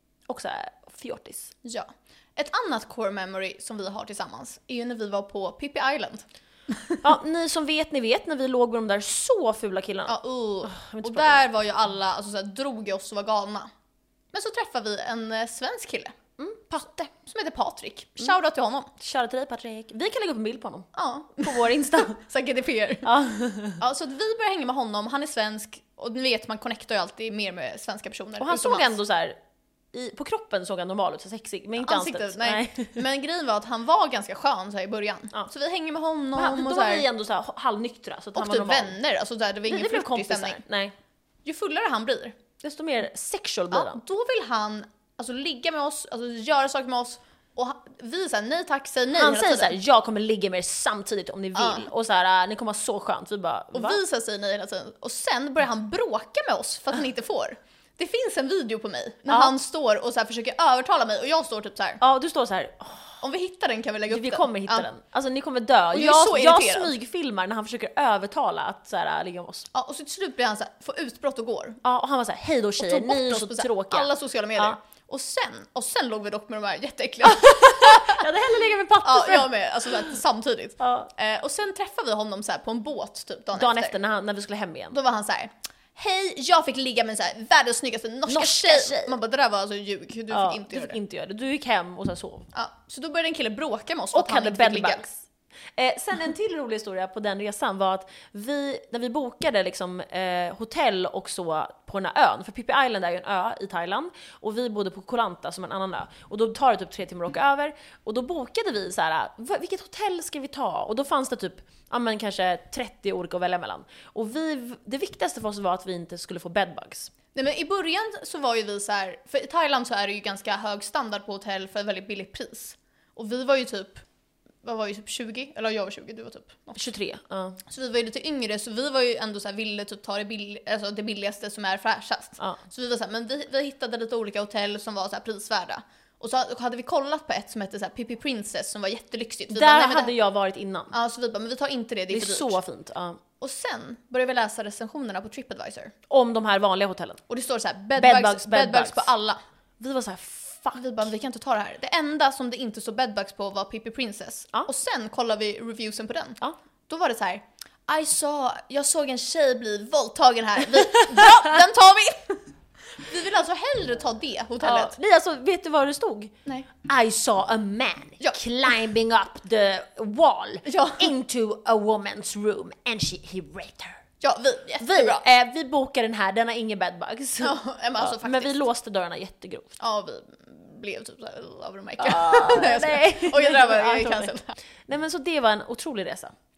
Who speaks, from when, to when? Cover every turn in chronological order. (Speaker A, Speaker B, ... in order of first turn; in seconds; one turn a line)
Speaker A: 0.3-1.5
Speaker B: 1.6-7.0
Speaker A: 7.0-11.4
Speaker B: 10.1-13.7
Speaker B: 14.3-16.1
Speaker A: 16.4-17.1
Speaker B: 17.2-18.9
Speaker A: 19.0-20.9
Speaker B: 20.9-23.1
Speaker A: 21.4-22.2
Speaker A: 23.0-23.8
Speaker B: 23.8-28.9
Speaker A: 28.4-29.4
Speaker A: 29.9-33.0
Speaker B: 31.8-37.1
Speaker A: 36.4-39.0
Speaker B: 38.4-40.6
Speaker A: 39.7-41.0
Speaker B: 41.5-42.4
Speaker A: 42.6-44.0
Speaker B: 43.7-49.8
Speaker A: 49.1-54.0
Speaker B: 51.5-51.9
Speaker B: 53.7-62.0
Speaker A: 59.3-59.5
Speaker A: 62.0-63.2
Speaker B: 63.2-64.9
Speaker A: 64.1-69.7
Speaker B: 65.9-66.9
Speaker B: 69.7-71.8
Speaker A: 71.8-74.8
Speaker B: 72.8-78.2
Speaker A: 77.2-79.5
Speaker B: 79.0-84.0
Speaker A: 80.8-81.1
Speaker A: 83.5-85.0
Speaker B: 84.9-91.0
Speaker A: 88.3-89.1
Speaker A: 90.3-92.5
Speaker B: 92.5-95.0
Speaker A: 94.1-95.2
Speaker A: 95.8-117.1
Speaker B: 117.3-124.0
Speaker B: 124.6-126.8
Speaker A: 126.8-127.6
Speaker B: 127.7-140.1
Speaker A: 139.5-140.9
Speaker B: 140.9-142.6
Speaker A: 142.1-143.2
Speaker B: 143.4-145.9
Speaker A: 146.1-147.2
Speaker B: 147.3-149.4
Speaker A: 148.0-149.1
Speaker A: 149.8-150.8
Speaker B: 150.8-162.4
Speaker B: 163.0-164.9
Speaker A: 164.6-174.0
Speaker B: 170.7-171.1
Speaker B: 174.2-175.3
Speaker A: 174.8-179.7
Speaker B: 177.4-178.6
Speaker B: 179.8-184.6
Speaker A: 182.0-184.3
Speaker A: 184.9-186.3